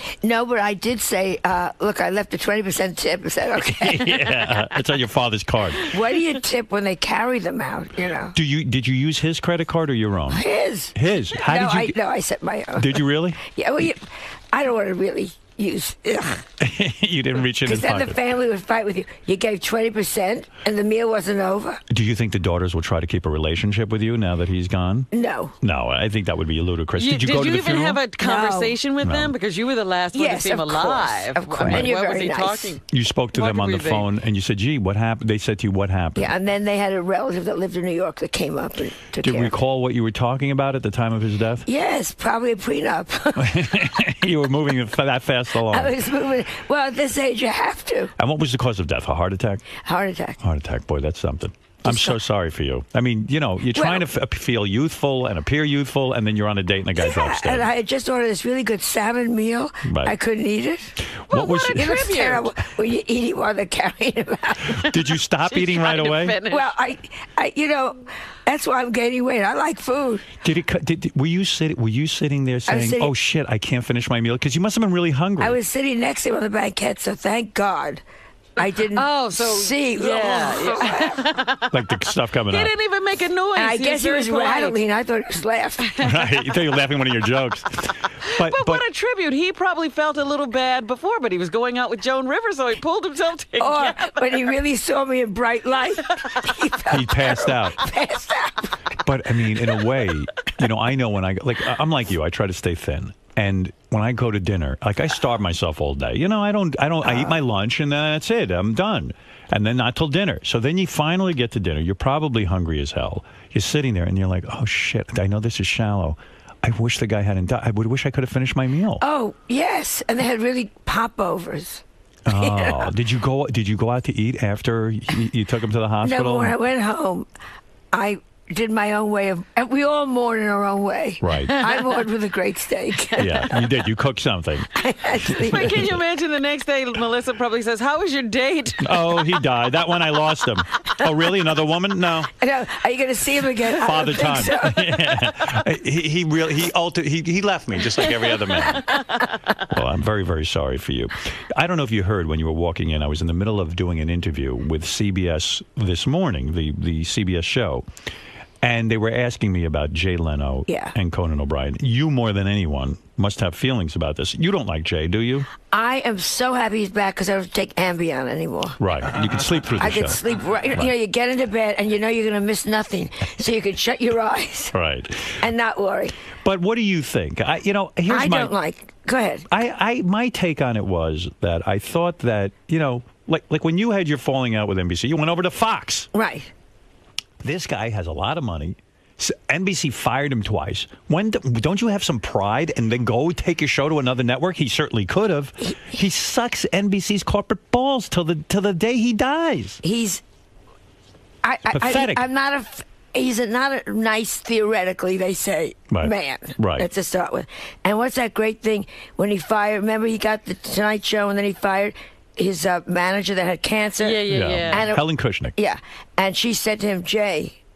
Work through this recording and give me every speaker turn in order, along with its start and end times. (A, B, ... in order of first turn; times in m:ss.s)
0:00.2-0:04.6 A
0:03.6-0:05.9 B
0:05.8-0:08.3 A
0:08.3-0:12.0 B
0:10.3-0:16.4 A
0:12.8-0:13.4 B
0:16.6-0:18.2 B
0:17.6-0:21.8 A
0:21.9-0:25.1 B
0:25.1-0:25.5 A
0:25.6-0:28.0 B
0:27.0-0:32.8 C
0:28.2-0:28.8 A
0:29.0-0:29.3 B
0:30.1-0:32.8 A
0:31.6-0:31.9 B
0:32.9-0:36.3 B
0:33.3-0:34.1 C
0:36.2-0:39.5 A
0:39.2-0:41.7 B
0:41.6-0:43.9 A
0:43.4-0:46.0 B
0:45.7-0:48.1 A
0:48.2-0:49.6 B
0:49.8-0:50.4 A
0:50.4-0:57.7 B
0:51.8-0:52.2 A
0:53.7-0:54.1 A
0:57.0-1:01.0 A
0:59.8-1:00.1 B
1:01.1-1:02.0 B
1:01.3-1:02.5 C
1:01.8-1:04.9 A
1:04.7-1:06.4 B
1:05.5-1:06.7 C
1:06.5-1:10.3 A
1:10.4-1:15.6 B
1:12.7-1:13.1 A
1:15.4-1:18.0 A
1:18.6-1:21.3 A
1:18.9-1:24.8 C
1:21.7-1:22.7 B
1:23.6-1:25.9 A
1:25.8-1:26.5 C
1:26.0-1:28.8 B
1:28.2-1:34.4 C
1:33.6-1:39.0 A
1:36.8-1:37.8 B
1:39.0-1:59.0 B
1:47.0-1:47.3 A
1:59.0-2:02.9 A
2:02.2-2:06.6 B
2:06.0-2:07.3 A
2:07.9-2:13.7 A
2:11.2-2:11.6 B
2:13.2-2:16.0 B
2:14.7-2:15.8 A
2:15.4-2:19.3 C
2:18.8-2:22.3 B
2:22.4-2:25.0 A
2:23.6-2:29.0 B
2:28.9-2:29.2 C
2:29.6-2:37.9 B
2:38.6-2:45.5 B
2:40.7-2:40.9 A
2:45.7-2:48.8 A
2:48.8-2:50.2 B
2:49.8-2:54.7 A
2:54.7-2:55.5 B
2:55.4-2:56.1 A
2:56.4-2:58.5 B
2:58.1-2:59.5 A
2:59.5-3:06.1 B
3:06.1-3:06.5 A
3:07.4-3:19.8 B
3:19.8-3:20.2 A
3:21.4-3:37.6 A
3:21.7-3:22.2 B
3:25.9-3:26.9 B
3:34.0-3:34.9 C
3:34.3-3:35.5 B